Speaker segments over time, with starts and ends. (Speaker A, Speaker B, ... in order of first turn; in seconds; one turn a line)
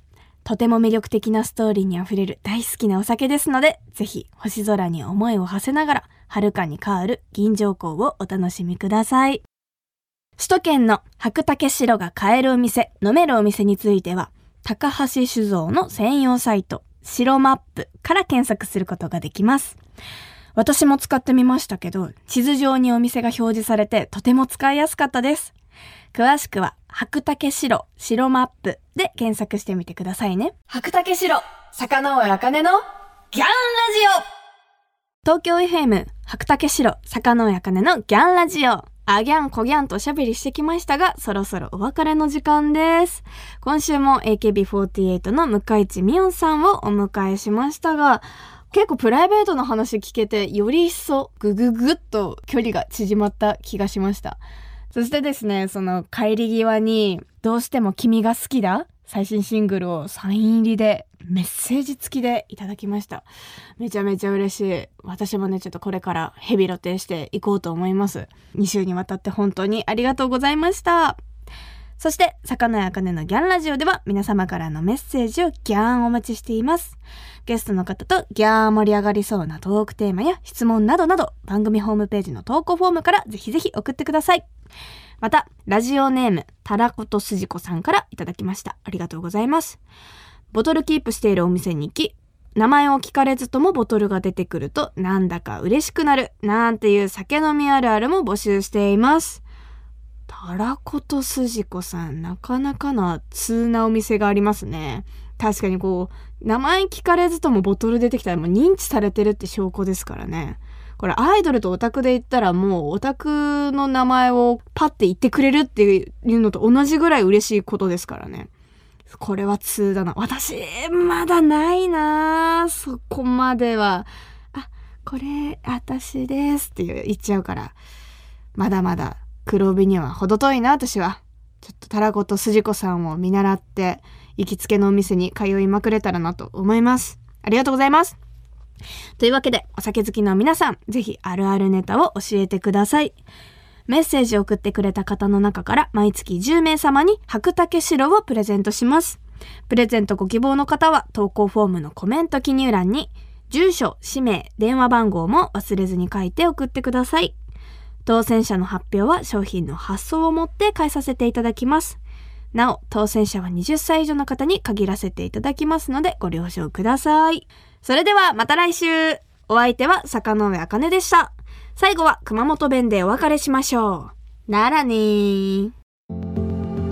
Speaker A: 0.5-9.4
Speaker A: 10.4-19.8
Speaker A: 20.6-25.5
Speaker A: 26.1-32.8
Speaker A: 33.3-34.2
Speaker A: 35.2-54.4
Speaker A: 54.9-63.3
Speaker A: 63.8-71.2
Speaker A: 72.0-84.4
Speaker A: 85.2-89.8
Speaker A: 90.5-99.4
Speaker A: 100.3-118.5
Speaker A: 119.1-127.8
Speaker A: 128.6-138.2
Speaker A: 139.2-143.2
Speaker A: 143.9-157.3
Speaker A: 158.1-162.0
Speaker A: 162.5-175.7